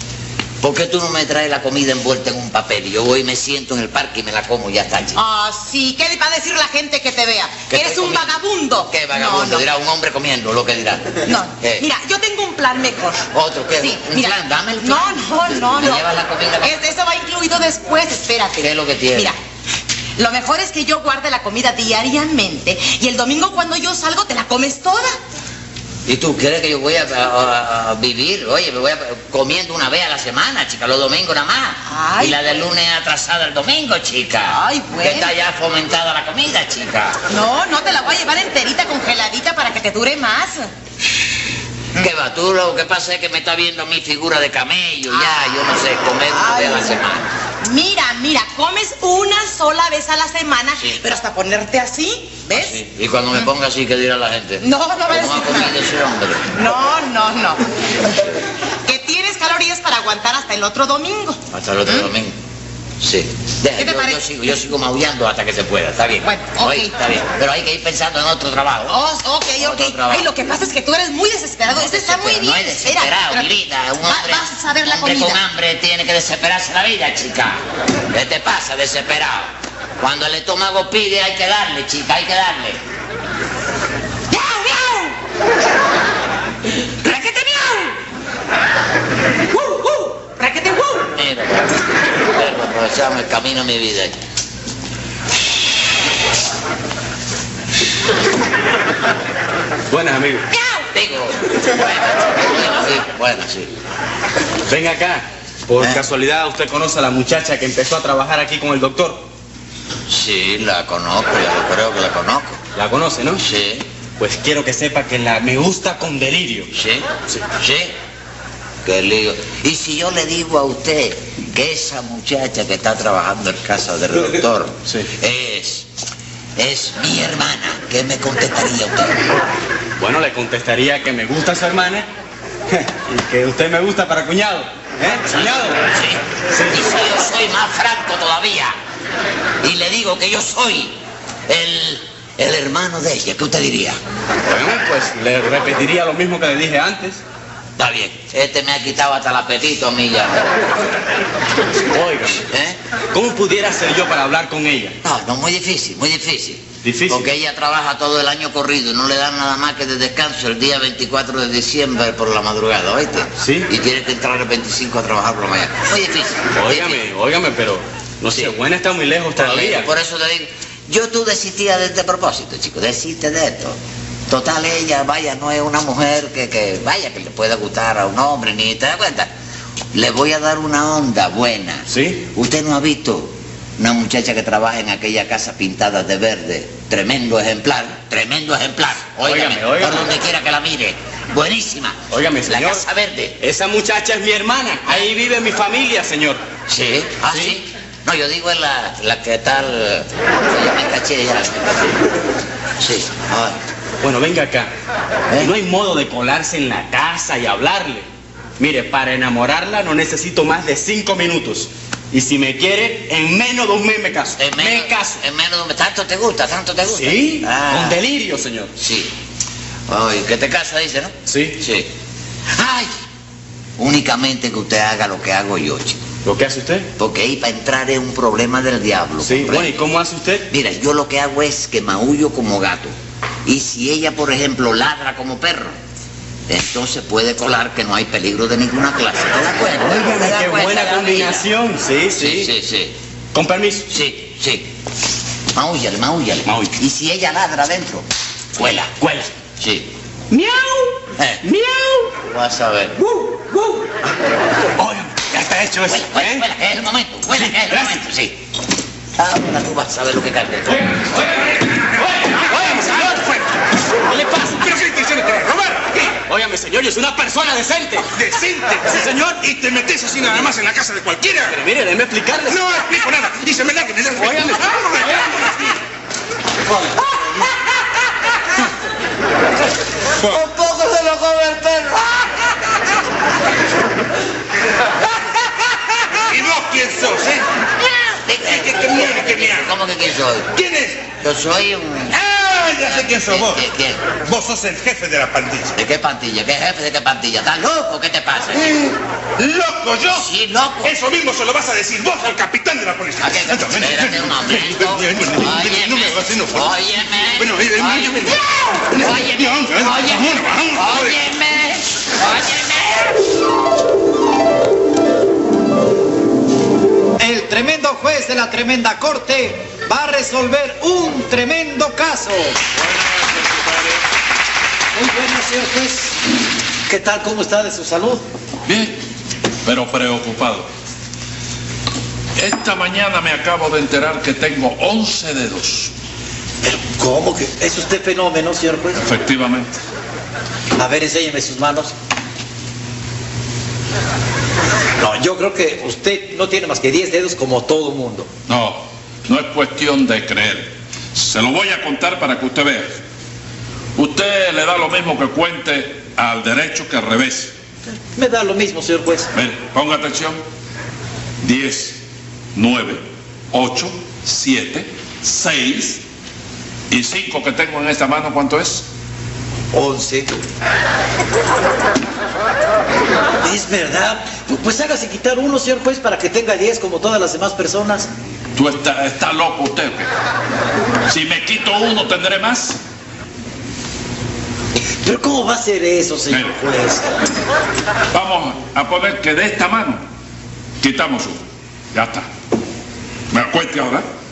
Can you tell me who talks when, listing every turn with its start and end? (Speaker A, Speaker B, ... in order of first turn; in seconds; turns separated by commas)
Speaker A: 0.6-5.2, Speaker B: 5.2-9.7, Speaker A: 7.7-11.9, Speaker B: 11.2-16.1, Speaker A: 13.3-16.9, Speaker B: 16.6-19.4, Speaker A: 18.6-19.4, Speaker B: 20.2-25.2, Speaker A: 26.1-37.2, Speaker B: 31.9-32.5, Speaker B: 34.5-35.3, Speaker B: 37.3-40.7, Speaker A: 42.0-47.3, Speaker B: 45.1-45.7, Speaker B: 46.2-47.0, Speaker B: 47.6-52.8, Speaker A: 52.5-56.5, Speaker B: 54.6-55.8, Speaker B: 56.5-57.6, Speaker B: 58.9-62.1, Speaker A: 61.5-62.4, Speaker A: 63.0-69.0, Speaker B: 63.8-64.2, Speaker B: 66.2-66.9, Speaker B: 68.9-73.5, Speaker A: 69.6-70.3, Speaker A: 71.7-77.6, Speaker B: 74.1-75.4, Speaker A: 78.1-82.8, Speaker B: 84.3-85.2, Speaker B: 87.0-88.0, Speaker B: 89.5-91.1, Speaker A: 91.2-94.2, Speaker C: 99.9-100.5, Speaker B: 100.6-100.8, Speaker A: 100.9-103.7, Speaker C: 104.7-109.2, Speaker A: 110.1-112.6, Speaker C: 112.8-113.4, Speaker A: 113.4-113.8, Speaker C: 114.2-116.7, Speaker A: 116.7-118.0, Speaker A: 118.8-125.9, Speaker A: 126.6-129.2, Speaker C: 130.0-132.1, Speaker C: 132.7-135.8, Speaker A: 135.3-138.8, Speaker C: 136.5-136.8, Speaker A: 139.6-144.0, Speaker C: 144.5-147.2, Speaker A: 147.8-150.6, Speaker C: 151.9-152.4, Speaker A: 152.5-152.8, Speaker C: 153.1-155.0, Speaker A: 155.0-167.1, Speaker C: 156.8-157.3, Speaker C: 163.4-163.7, Speaker C: 166.6-169.9, Speaker A: 169.4-179.3, Speaker A: 179.9-193.3, Speaker C: 181.9-182.2, Speaker C: 189.2-190.1, Speaker C: 192.1-192.8, Speaker C: 193.4-196.4, Speaker A: 196.7-202.0, Speaker C: 197.3-197.6, Speaker A: 202.8-203.6, Speaker C: 204.0-204.7, Speaker C: 205.4-208.1, Speaker C: 208.6-215.2, Speaker A: 214.4-218.0, Speaker C: 216.9-218.7, Speaker A: 218.8-219.1, Speaker A: 219.9-221.9, Speaker C: 221.3-221.6, Speaker A: 222.6-222.9, Speaker A: 223.8-226.0, Speaker C: 226.2-226.9, Speaker A: 227.0-229.8, Speaker C: 229.2-230.5, Speaker A: 230.5-232.9, Speaker A: 233.4-235.8, Speaker A: 236.5-241.5, Speaker C: 239.8-242.5, Speaker A: 242.2-242.9, Speaker C: 243.3-243.9, Speaker A: 243.9-244.7, Speaker A: 245.5-249.0, Speaker C: 246.5-246.7, Speaker C: 249.0-249.3, Speaker A: 249.6-249.9, Speaker C: 250.3-250.9, Speaker A: 251.2-251.4, Speaker C: 251.4-252.1, Speaker A: 252.2-252.9, Speaker C: 254.8-256.4, Speaker A: 255.8-258.4, Speaker C: 257.4-258.0, Speaker A: 259.2-261.0, Speaker C: 260.8-263.3, Speaker D: 262.1-263.5, Speaker C: 264.1-264.6, Speaker D: 264.5-266.2, Speaker C: 266.3-268.1, Speaker D: 268.1-271.6, Speaker C: 268.9-269.4, Speaker C: 271.5-272.6, Speaker D: 272.5-275.7, Speaker C: 274.2-275.7, Speaker C: 276.7-277.2, Speaker D: 280.2-280.4, Speaker A: 280.3-282.3, Speaker D: 286.3-287.4, Speaker A: 288.0-290.5, Speaker D: 288.5-289.7, Speaker D: 290.5-291.1, Speaker A: 291.2-292.2, Speaker D: 292.1-295.8, Speaker A: 292.8-294.1, Speaker A: 295.8-298.8, Speaker D: 298.5-300.3, Speaker A: 300.1-300.9, Speaker D: 300.8-311.2, Speaker A: 303.2-313.2, Speaker E: 317.2-322.6, Speaker F: 322.7-324.0, Speaker E: 324.9-326.2, Speaker E: 326.9-328.2, Speaker F: 328.7-329.0, Speaker F: 329.6-330.7, Speaker F: 332.4-335.9, Speaker E: 336.6-339.0, Speaker F: 339.0-339.7, Speaker E: 340.8-341.9, Speaker E: 345.0-348.3, Speaker F: 348.5-353.0, Speaker F: 354.0-357.5, Speaker E: 358.2-359.3, Speaker F: 359.3-360.4, Speaker F: 361.4-362.0, Speaker F: 362.6-366.0, Speaker F: 366.9-368.8, Speaker E: 369.7-370.4, Speaker E: 373.4-378.1, Speaker F: 378.6-380.1, Speaker F: 381.1-382.8, Speaker E: 385.0-387.1, Speaker F: 386.3-386.6, Speaker F: 388.1-390.0, Speaker F: 390.8-391.4, Speaker F: 391.9-392.3, Speaker F: 393.3-394.1